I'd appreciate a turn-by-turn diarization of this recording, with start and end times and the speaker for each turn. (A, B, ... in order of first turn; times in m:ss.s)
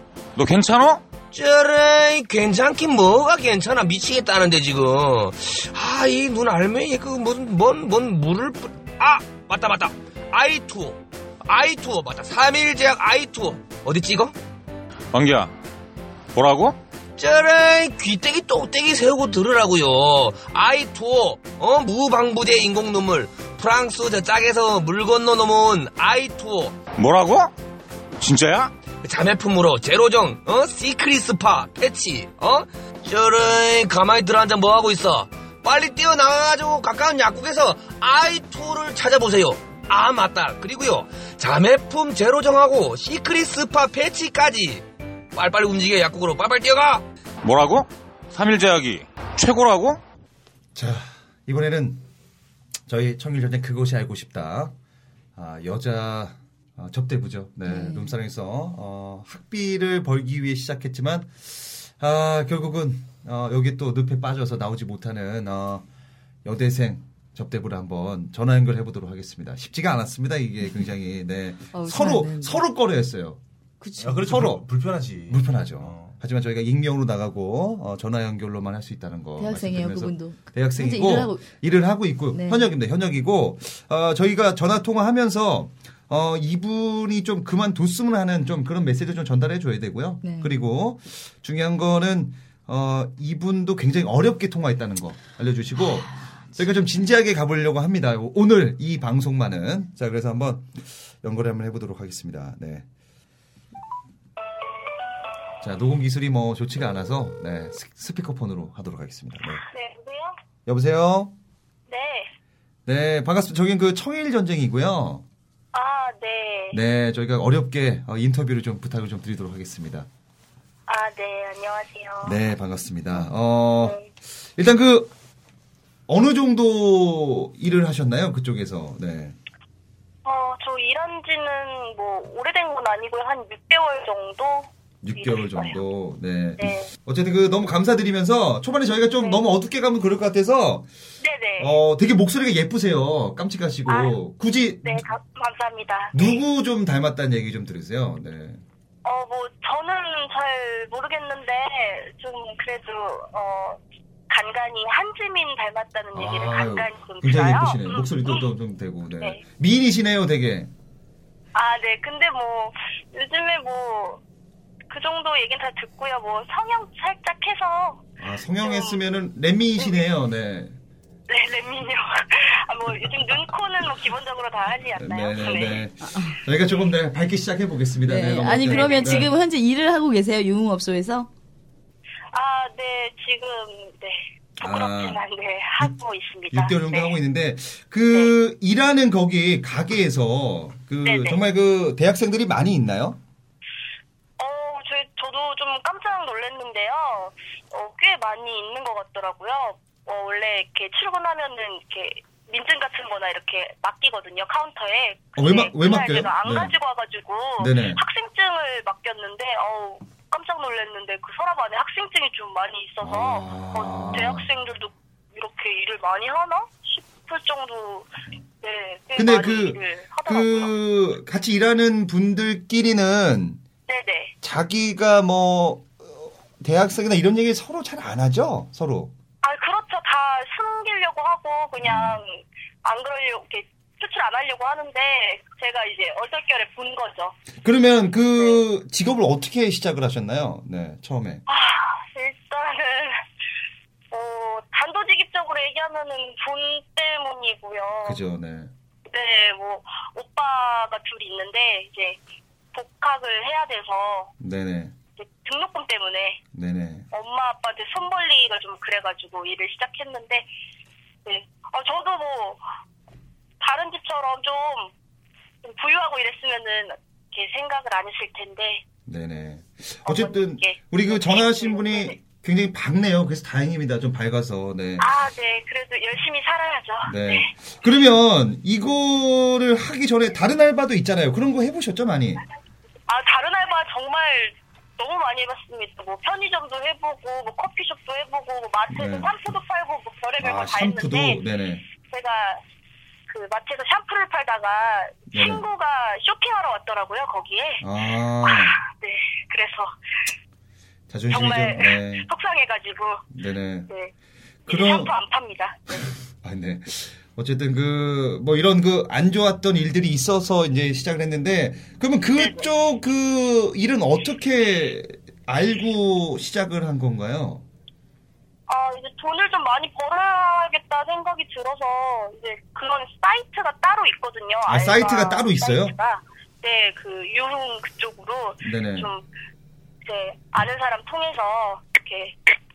0:00.4-0:01.0 A
0:01.3-0:14.3 B
0:15.1-0:15.5 A
0:16.3-0:16.8 A
0:17.2-0:26.8 B
0:27.0-0:27.5 A
0:28.2-0:28.7 A
0:29.0-0:47.0 B
0:47.4-0:50.0 A
0:50.8-0:52.0 C
0:52.9-0:54.7 C
0:55.4-1:05.8 C
0:57.6-0:58.2 D
1:06.4-1:13.4 C
1:11.7-1:12.6 D
1:13.8-1:14.3 D
1:14.0-1:16.2 E
1:14.3-1:14.7 C
1:15.2-1:42.9 C
1:19.4-1:21.5 D
1:22.3-1:22.7 D
1:30.2-1:30.5 D
1:45.6-1:49.6 C
1:49.7-1:50.3 F
1:50.7-1:51.3 C
1:51.9-1:52.3 F
1:52.9-1:55.2 C
1:55.7-1:56.8 F
1:56.7-2:00.1 C
2:00.9-2:02.4 F
2:02.2-2:04.0 C
2:04.6-2:05.1 C
2:06.1-2:09.4 C
2:10.2-2:15.8 F
2:15.0-2:20.9 C
2:16.6-2:16.9 F
2:21.2-2:21.8 F
2:21.6-2:25.0 C
2:23.9-2:24.2 F
2:24.8-2:26.4 F
2:26.1-2:28.6 C
2:29.0-2:33.8 F
2:34.3-2:38.4 F
2:36.1-2:40.7 C
2:41.6-2:44.2 F
2:44.9-2:48.0 F
2:48.2-2:50.8 C
2:48.6-2:49.0 F
2:49.8-2:50.0 F
2:51.3-2:55.9 F
2:55.0-2:59.3 C
2:56.0-2:56.4 D
2:58.1-3:01.3 D
2:58.7-2:59.3 F
3:02.3-3:07.2 F
3:04.6-3:05.2 C
3:06.5-3:13.2 C
3:11.0-3:11.4 F
3:14.4-3:38.1 F
3:25.4-3:26.7 C
3:27.6-3:28.0 C
3:33.0-3:34.5 C
3:38.6-3:40.7 F
3:39.2-3:43.6 C
3:43.9-3:44.3 F
3:44.4-3:49.1 C
3:49.4-3:57.4 F
3:51.8-3:52.2 C
3:57.6-4:01.4 C
4:01.5-4:03.2 F
4:04.1-4:08.2 F
4:08.0-4:08.7 C
4:09.1-4:12.2 F
4:12.7-4:14.3 F
4:14.4-4:15.0 C
4:15.2-4:16.4 F
4:16.5-4:17.1 C
4:17.1-4:20.5 F
4:21.2-4:22.6 F
4:23.6-4:24.9 F
4:25.6-4:28.8 F
4:29.1-4:35.1 C
4:30.0-4:32.2 F
4:35.0-4:37.5 F
4:37.0-4:42.4 C
4:43.1-4:51.4 F
4:48.9-4:49.5 C
4:50.4-4:51.8 C
4:52.1-4:52.6 F
4:53.3-4:57.8 F
4:55.3-4:55.6 C
4:57.8-4:58.8 C
4:58.4-4:59.9 F
5:01.1-5:02.3 C
5:01.3-5:03.2 F
5:03.3-5:03.9 C
5:04.7-5:05.1 C
5:04.7-5:06.1 F
5:06.4-5:17.6 C
5:12.4-5:12.7 F
5:18.7-5:29.2 F
5:24.7-5:26.0 C
5:28.6-5:29.1 C
5:30.0-5:32.4 F